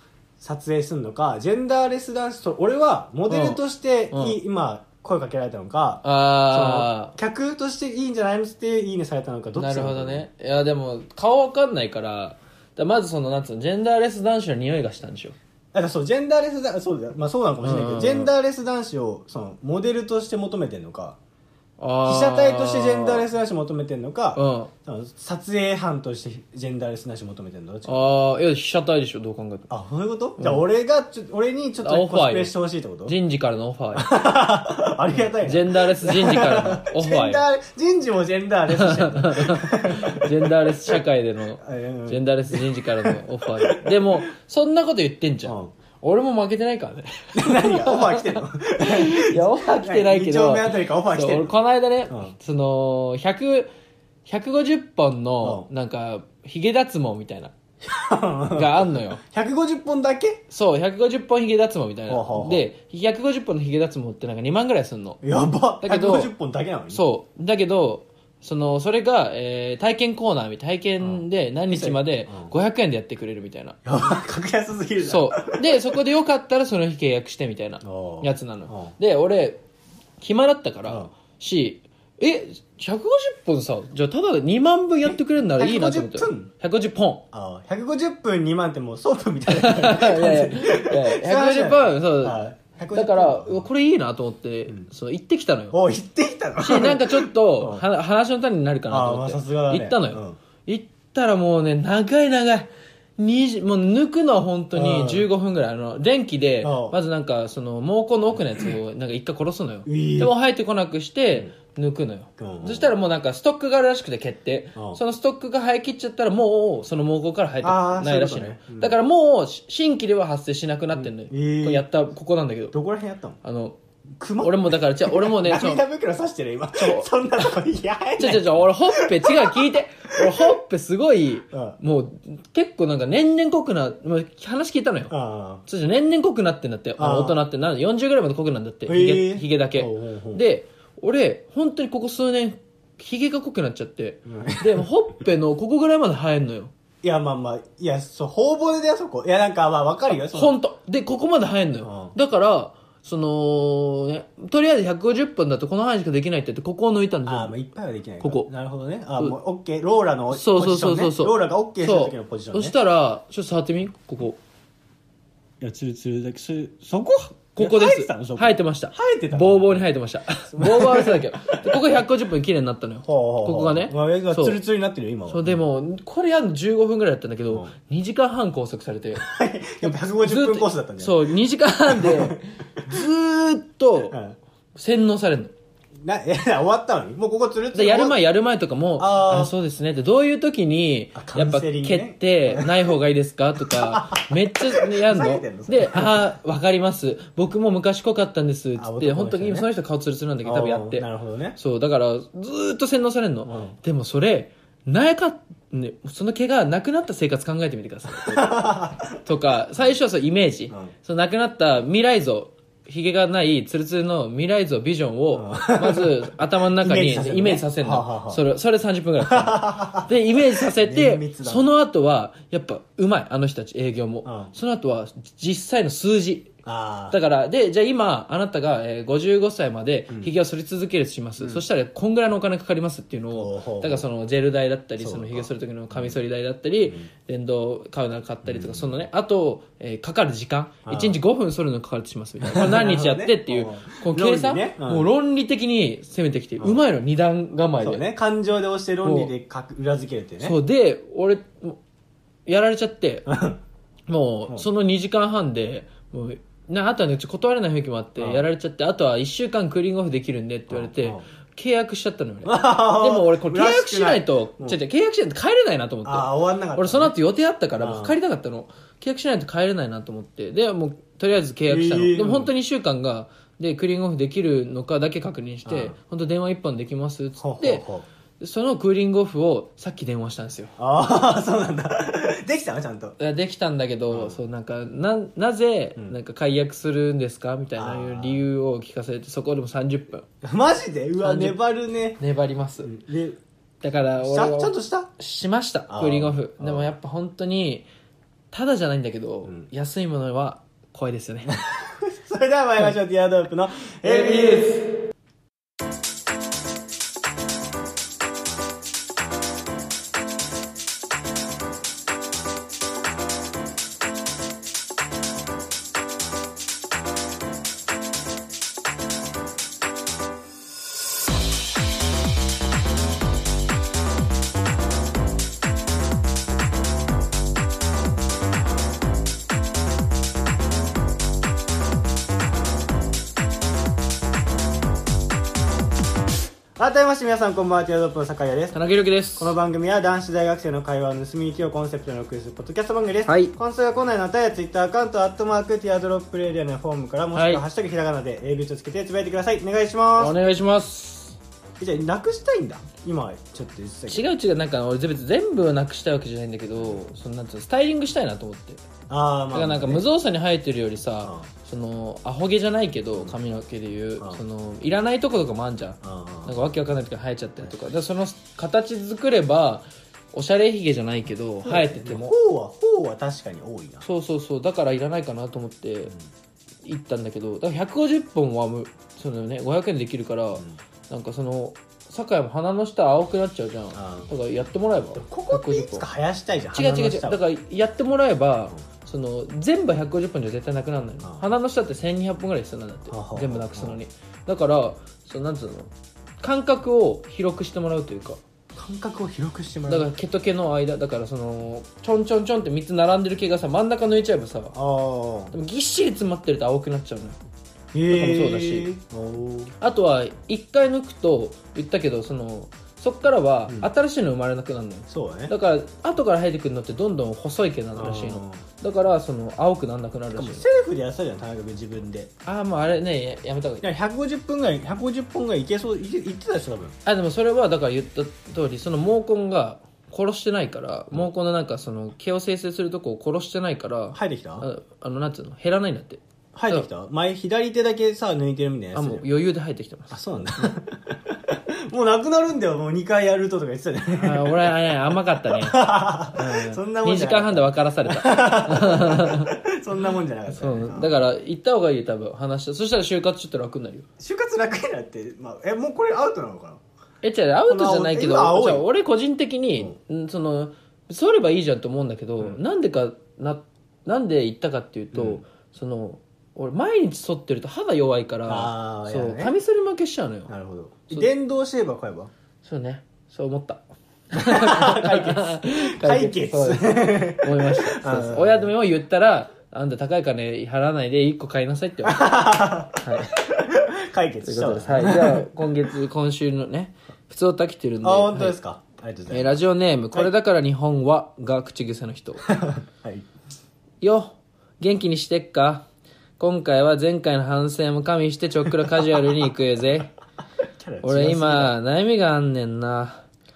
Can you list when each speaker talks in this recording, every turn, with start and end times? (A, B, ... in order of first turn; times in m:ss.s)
0:00.4-0:10.3 A
0:03.3-0:03.6 B
0:04.1-0:04.4 B
0:06.0-0:07.1 B
0:09.6-0:15.4 B
0:15.7-0:21.2 A
0:17.6-0:18.3 B
0:21.8-0:23.2 B
0:22.0-0:28.1 A
0:24.3-0:24.7 B
0:27.8-0:29.7 B
0:29.7-0:33.2 A
0:31.8-0:34.1 B
0:33.9-0:41.0 A
0:35.4-0:37.4 B
0:38.7-0:53.7 B
0:41.6-0:44.1 A
0:45.4-0:45.7 A
0:47.3-0:51.5 A
0:52.1-0:52.3 A
0:54.2-0:57.5 B
0:55.4-0:55.7 A
0:57.8-1:00.4 A
0:58.5-0:59.2 B
1:00.5-1:05.2 B
1:02.1-1:02.7 A
1:05.2-1:07.0 A
1:05.8-1:06.3 B
1:06.9-1:13.8 B
1:11.0-1:12.5 A
1:13.8-1:15.9 A
1:15.0-1:19.6 B
1:17.8-1:18.9 A
1:20.2-1:27.2 B
1:25.6-1:26.5 A
1:27.3-1:33.6 A
1:29.5-1:32.4 B
1:32.9-1:35.7 B
1:35.7-1:37.8 A
1:36.6-2:02.7 B
1:38.9-1:40.4 A
1:44.7-1:45.3 A
1:46.6-1:47.0 A
1:49.8-1:50.3 A
1:52.4-1:52.9 A
1:54.7-1:55.0 A
1:57.6-1:58.9 A
2:00.9-2:01.9 A
2:02.7-2:03.4 A
2:03.4-2:03.8 B
2:04.2-2:10.5 A
2:04.4-2:05.8 B
2:06.8-2:07.4 B
2:08.2-2:15.1 B
2:11.5-2:11.8 A
2:15.1-2:15.6 A
2:15.6-2:26.7 B
2:17.0-2:17.4 A
2:18.8-2:20.4 A
2:24.2-2:24.8 A
2:27.0-2:30.6 A
2:30.1-2:37.5 B
2:31.8-2:32.1 A
2:37.2-2:42.7 A
2:38.2-2:38.5 B
2:40.3-2:44.4 B
2:45.6-2:49.8 A
2:47.6-2:54.6 B
2:50.5-2:51.8 A
2:53.0-2:55.6 A
2:55.3-2:59.2 B
2:59.1-3:01.2 A
2:59.8-3:04.2 B
3:01.9-3:02.9 A
3:04.1-3:04.4 A
3:04.7-3:05.5 B
3:06.0-3:08.2 A
3:07.7-3:21.0 B
3:09.0-3:09.5 A
3:11.1-3:12.9 A
3:13.6-3:16.3 A
3:18.8-3:19.7 A
3:20.4-3:21.6 A
3:21.6-3:28.7 B
3:23.4-3:23.8 A
3:28.1-3:29.2 A
3:29.2-3:46.5 B
3:35.3-3:38.4 A
3:39.2-3:41.7 A
3:44.2-3:44.5 A
3:46.6-3:47.2 A
3:47.1-4:08.1 B
3:51.4-3:51.6 A
3:53.3-3:54.0 A
3:55.0-3:56.2 A
3:58.4-3:59.0 A
4:00.8-4:01.2 A
4:02.4-4:05.1 A
4:07.8-4:10.5 A
4:09.0-4:09.3 B
4:10.4-4:11.8 B
4:12.4-4:13.3 B
4:13.3-4:13.6 A
4:14.1-4:37.8 B
4:18.2-4:18.4 A
4:20.7-4:21.2 A
4:22.4-4:24.8 A
4:26.0-4:27.2 A
4:27.8-4:28.2 A
4:31.7-4:32.5 A
4:35.6-4:36.0 A
4:37.4-4:38.0 A
4:38.4-4:40.7 B
4:40.8-4:43.2 A
4:43.2-4:50.2 B
4:44.1-4:44.4 A
4:47.8-4:48.4 A
4:50.4-4:52.2 A
4:51.2-4:51.6 B
4:52.2-4:52.9 B
4:52.8-4:53.4 A
4:53.8-4:57.8 B
4:54.2-4:55.1 A
4:55.9-4:56.9 A
4:58.5-5:01.5 B
5:01.5-5:04.7 A
5:04.0-5:04.9 B
5:36.8-5:38.8 A
5:38.7-5:39.5 B
5:39.4-5:50.3 A
5:43.2-5:43.5 B
5:47.3-5:47.6 B
5:50.2-5:51.4 B
5:51.8-5:54.3 A
5:54.1-5:58.8 B
5:59.1-6:00.1 A
5:59.5-6:12.3 B
6:01.2-6:01.5 A
6:06.0-6:06.6 A
6:11.6-6:14.0 A
6:14.0-6:16.1 B
6:16.8-6:26.0 B
6:23.9-6:24.3 A
6:25.1-6:27.4 A
6:26.7-6:38.4 B
6:31.2-6:31.5 A
6:33.1-6:34.0 A
6:38.8-6:40.1 A
6:39.9-6:44.7 B
6:44.7-6:45.5 A
6:45.5-6:47.4 B
6:47.9-6:49.7 A
6:48.1-6:48.9 B
6:49.8-7:00.6 B
6:55.1-6:55.5 A
6:57.9-6:58.6 A
7:00.3-7:02.3 A
7:02.4-7:03.8 B
7:03.8-7:07.0 A
7:07.0-7:16.9 B
7:14.1-7:14.7 A
7:16.5-7:19.2 A
7:18.9-7:20.7 B
7:20.1-7:24.7 A
7:24.2-7:29.5 B
7:25.5-7:31.2 A
7:30.5-7:34.1 B
7:34.2-7:36.8 A
7:37.2-7:50.5 B
7:37.7-7:38.8 A
7:45.1-7:45.4 A
7:48.5-7:49.5 A
7:50.5-7:52.3 A
7:52.6-8:03.3 B
7:54.3-7:58.7 A
8:02.0-8:05.4 A
8:04.4-8:08.6 B
8:08.0-8:09.6 A
8:09.3-8:12.4 B
8:12.4-8:13.3 A
8:14.0-8:15.8 B
8:16.4-8:20.1 B
8:20.8-8:21.7 A
8:21.0-8:23.2 B